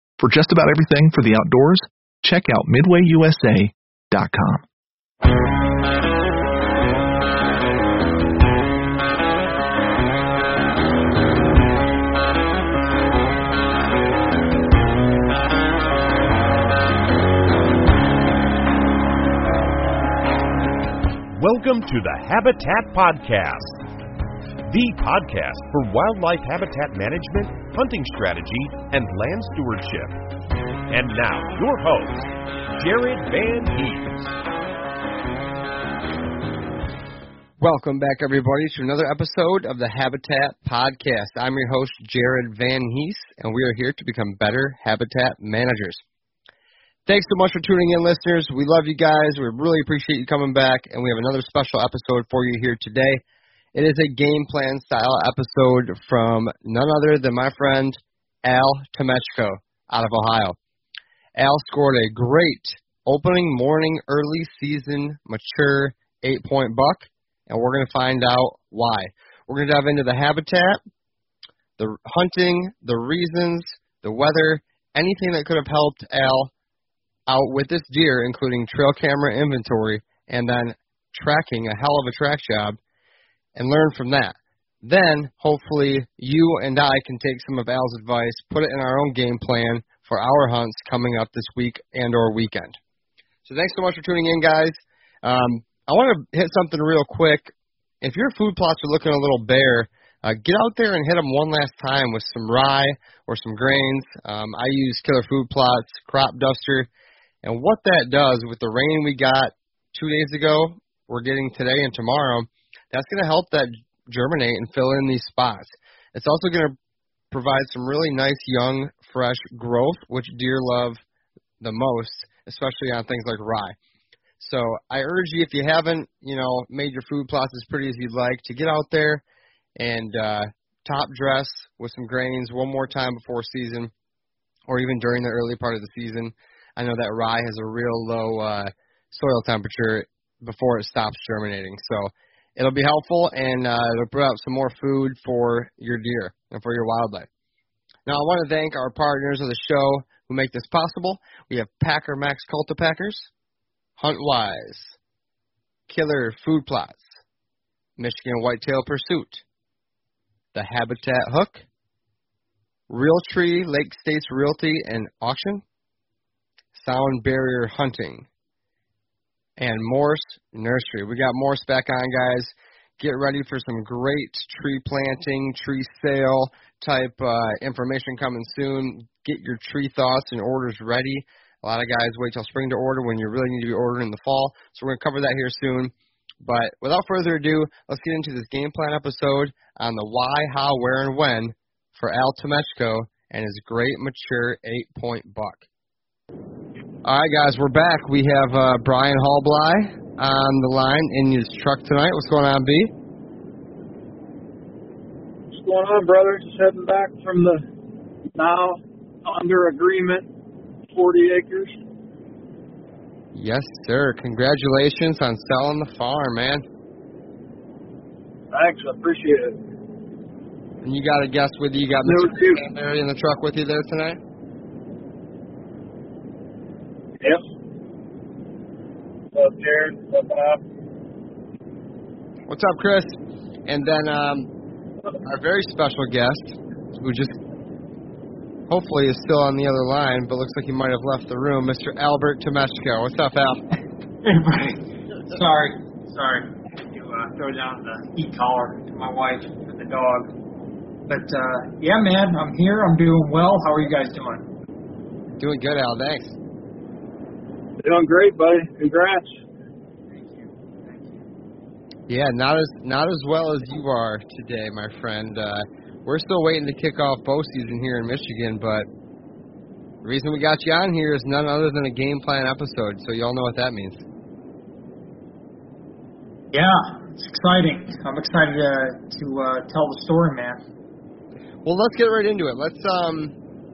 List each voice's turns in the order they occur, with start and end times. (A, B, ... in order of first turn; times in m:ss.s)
0:00.2-0:04.6 A
0:21.3-0:23.8 B
0:24.6-0:30.2 B
0:30.9-0:34.3 B
0:37.6-0:46.0 C
0:47.1-0:53.2 C
0:53.7-1:00.6 C
1:01.3-1:10.8 C
1:11.8-1:16.5 C
1:17.3-1:22.8 C
1:23.6-1:32.8 C
1:33.4-1:46.9 C
1:47.4-1:56.8 C
1:57.3-2:01.0 C
2:01.6-2:03.7 C
2:04.4-2:09.2 C
2:09.8-2:13.9 C
2:14.7-2:27.3 C
2:28.0-2:33.3 C
2:34.0-2:35.0 C
2:35.9-2:37.1 C
2:38.0-2:39.4 C
2:40.5-2:41.6 C
2:42.9-2:45.6 C
2:46.7-2:48.3 C
2:49.6-3:15.6 C
3:17.0-3:22.9 C
3:25.5-3:27.6 D
3:28.3-3:30.3 D
3:30.9-3:31.7 D
3:33.3-3:36.6 C
3:38.5-3:39.6 D
3:40.8-3:44.2 C
3:42.0-3:42.6 D
3:49.3-3:50.6 D
3:52.5-3:53.1 C
3:53.6-3:54.5 C
3:55.2-3:57.3 C
3:58.7-4:03.6 C
4:04.2-4:10.3 E
4:11.1-4:14.5 E
4:15.4-4:16.4 C
4:17.8-4:19.3 D
4:20.1-4:21.2 E
4:22.1-4:28.8 C
4:30.0-4:34.0 C
4:36.5-4:40.6 E
4:41.6-4:43.3 C